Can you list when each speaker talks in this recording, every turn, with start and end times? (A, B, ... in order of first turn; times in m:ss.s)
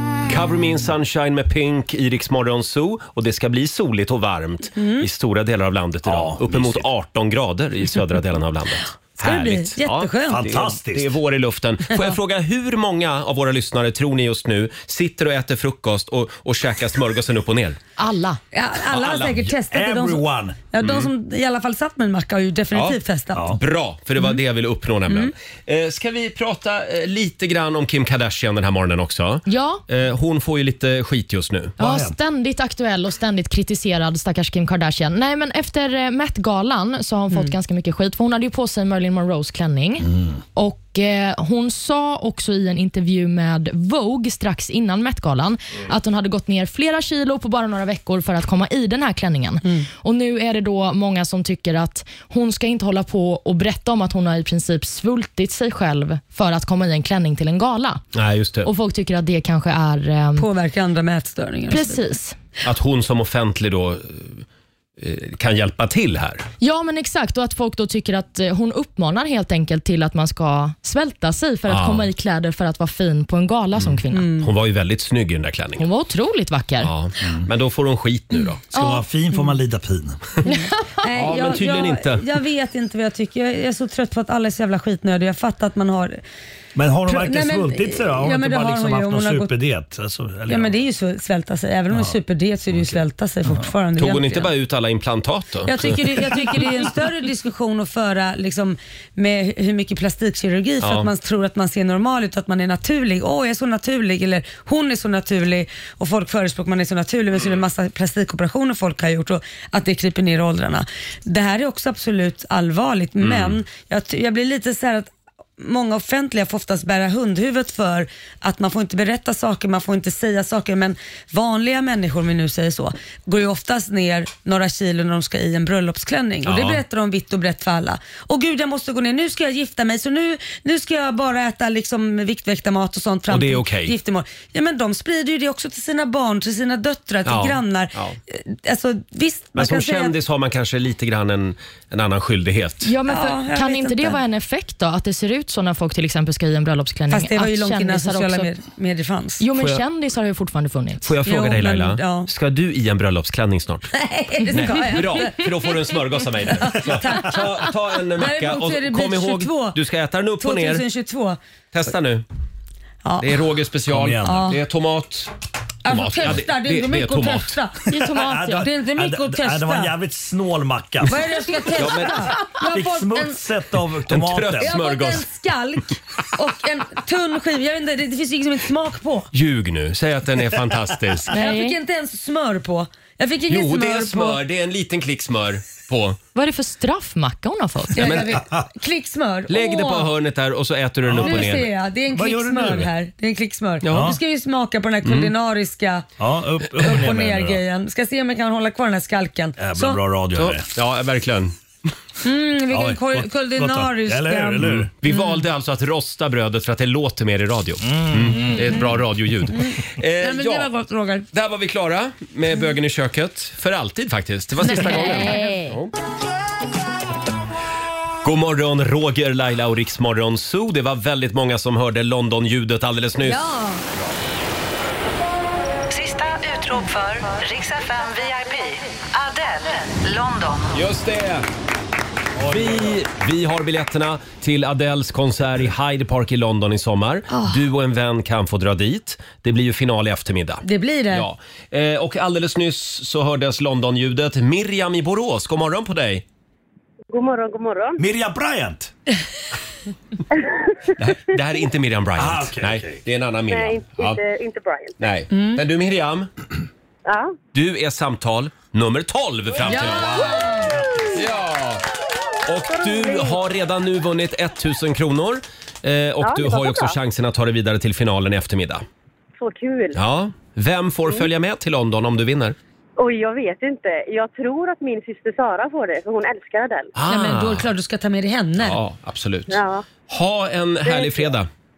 0:00.3-0:17.8 A
0:04.8-0:05.1 B
0:06.0-0:06.9 C
0:09.2-0:10.4 B
0:10.3-0:11.2 C
0:18.0-0:18.4 D
0:18.5-0:23.5 B
0:18.9-0:19.3 A
0:19.3-0:20.6 C
0:20.8-0:21.1 A
0:22.7-0:23.0 A
0:23.3-0:23.6 C
0:23.5-0:31.8 A
0:29.4-0:29.8 D
0:31.8-0:32.1 C
0:31.8-0:58.0 D
0:58.1-0:58.7 A
0:58.6-1:00.4 D
1:00.4-1:02.0 B
1:01.7-1:02.4 D
1:02.6-1:04.4 A
1:05.0-1:06.4 A
1:06.6-1:14.3 D
1:11.7-1:12.1 A
1:13.8-1:15.8 A
1:14.1-1:14.5 B
1:15.8-1:16.9 D
1:16.8-1:18.6 A
1:17.2-1:17.5 C
1:18.7-1:20.2 C
1:18.7-1:19.0 D
1:20.4-1:26.2 B
1:20.4-1:21.0 D
1:21.1-1:22.2 A
1:26.7-1:30.7 C
1:27.1-1:29.5 B
1:30.5-1:34.5 B
1:32.7-1:33.7 C
1:34.0-1:36.5 A
1:35.6-2:20.1 B
1:40.8-1:41.1 A
1:53.2-1:53.6 A
2:06.4-2:06.8 A
2:13.3-2:13.9 A
2:17.2-2:18.2 A
2:19.5-2:22.9 A
2:22.8-2:28.5 D
2:23.1-2:24.2 B
2:27.1-2:29.4 B
2:29.4-2:31.1 D
2:29.6-2:29.8 A
2:31.0-2:33.9 A
2:31.2-2:32.3 B
2:33.9-2:39.8 B
2:34.5-2:40.8 A
2:40.4-2:41.4 B
2:41.7-2:42.2 A
2:43.0-2:43.4 B
2:43.2-2:45.3 A
2:43.9-2:44.6 C
2:44.2-2:44.6 B
2:45.8-2:47.8 B
2:45.8-2:47.6 A
2:47.9-2:48.7 D
2:47.9-2:51.4 C
2:48.6-2:49.9 B
2:51.0-2:53.4 B
2:51.7-2:52.4 A
2:52.7-2:54.8 C
2:54.1-2:55.3 A
2:54.6-2:59.3 B
2:59.3-3:01.3 A
3:01.3-3:01.8 D
3:01.4-3:04.4 B
3:03.5-3:06.2 A
3:06.3-3:08.1 D
3:07.9-3:08.4 A
3:07.9-3:10.1 B
3:08.4-3:08.6 C
3:09.5-3:11.7 A
3:11.0-3:11.6 C
3:11.2-3:16.0 B
3:12.1-3:12.9 C
3:13.8-3:14.2 A
3:13.9-3:14.2 C
3:15.0-3:15.3 A
3:16.2-3:17.6 C
3:16.8-3:20.0 B
3:19.6-3:20.7 C
3:20.3-3:21.5 A
3:22.2-3:25.4 B
3:22.7-3:24.9 C
3:25.0-3:30.7 A
3:27.8-3:28.8 C
3:28.5-3:28.8 B
3:29.6-3:31.3 B
3:31.3-3:35.9 A
3:34.6-3:35.6 B
3:38.2-3:44.1 A
3:43.2-3:43.8 B
3:45.9-3:50.8 E
3:50.7-3:51.5 A
3:52.4-3:53.0 C
3:52.4-4:06.2 A
3:57.3-3:57.6 B
4:00.6-4:01.3 B
4:07.1-4:08.0 F
4:08.0-4:08.9 C
4:10.3-4:10.9 F
4:11.0-4:14.2 A
4:12.2-4:13.0 C
4:13.5-4:15.0 F
4:15.0-4:16.3 A
4:15.3-4:15.6 B
4:17.0-4:17.4 F
4:17.5-4:20.6 A
4:19.6-4:20.7 B
4:19.7-4:21.2 C
4:21.1-4:21.8 A
4:22.4-4:28.8 A
4:22.7-4:23.4 F
4:26.2-4:27.0 F
4:29.4-4:30.0 F
4:29.9-4:32.6 A
4:33.0-4:36.9 F
4:37.0-4:37.7 A
4:37.1-4:38.8 B
4:38.6-4:41.5 A
4:39.5-4:39.8 F
4:40.8-4:41.3 F